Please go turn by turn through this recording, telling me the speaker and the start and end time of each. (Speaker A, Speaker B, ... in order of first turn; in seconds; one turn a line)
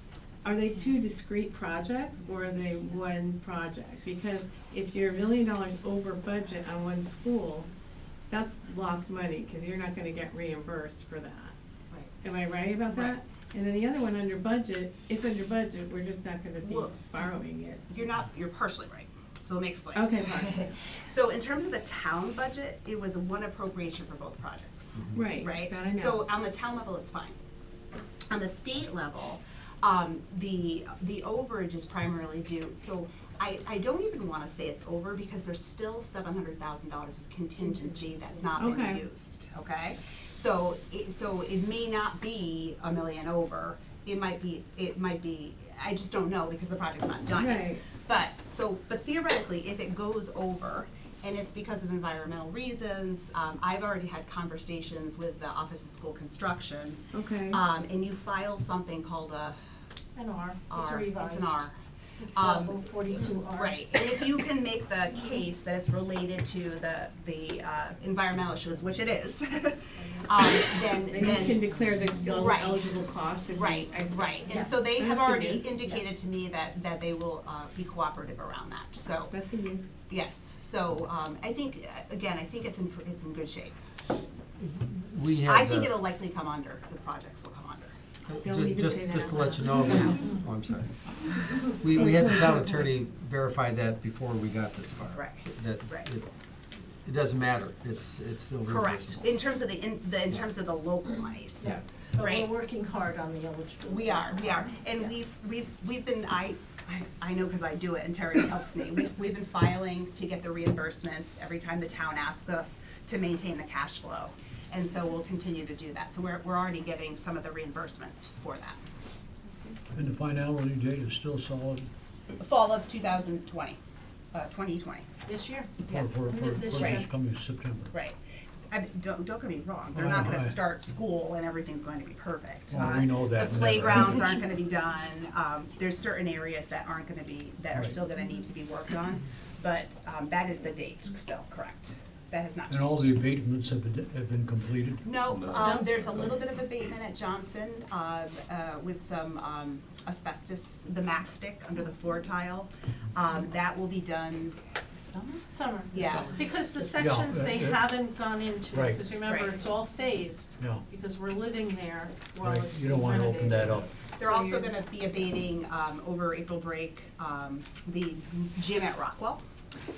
Speaker A: 0.4-7.7
Speaker A: 8.3-11.5
Speaker A: 12.2-17.9
Speaker B: 12.9-13.2
Speaker B: 16.6-16.9
Speaker B: 17.9-27.3
Speaker A: 19.9-20.7
Speaker A: 25.1-26.2
Speaker B: 28.3-59.6
Speaker A: 38.5-39.0
Speaker A: 47.4-47.8
Speaker A: 57.1-57.6
Speaker C: 60.1-61.7
Speaker B: 60.7-61.8
Speaker C: 62.2-64.3
Speaker B: 62.3-71.6
Speaker A: 71.1-75.7
Speaker B: 72.3-72.8
Speaker B: 73.5-79.3
Speaker A: 79.3-79.9
Speaker B: 80.1-83.7
Speaker D: 84.6-86.0
Speaker B: 85.4-87.9
Speaker D: 88.3-90.9
Speaker A: 88.4-90.1
Speaker B: 89.8-90.3
Speaker D: 91.5-96.2
Speaker B: 95.1-96.1
Speaker D: 97.0-99.2
Speaker B: 98.6-102.5
Speaker C: 101.6-105.1
Speaker B: 103.9-118.8
Speaker E: 119.9-121.9
Speaker B: 122.4-123.8
Speaker B: 124.3-125.1
Speaker C: 125.2-125.7
Speaker E: 125.9-127.9
Speaker C: 126.3-127.0
Speaker B: 126.7-127.0
Speaker B: 128.7-143.1
Speaker E: 129.9-130.6
Speaker E: 132.7-134.4
Speaker E: 137.7-138.0
Speaker E: 142.7-145.1
Speaker B: 145.0-156.4
Speaker C: 145.5-146.1
Speaker C: 155.5-163.8
Speaker E: 156.9-157.9
Speaker E: 158.7-159.0
Speaker B: 159.2-159.6
Speaker E: 160.6-160.8
Speaker E: 162.4-163.9
Speaker B: 164.2-169.4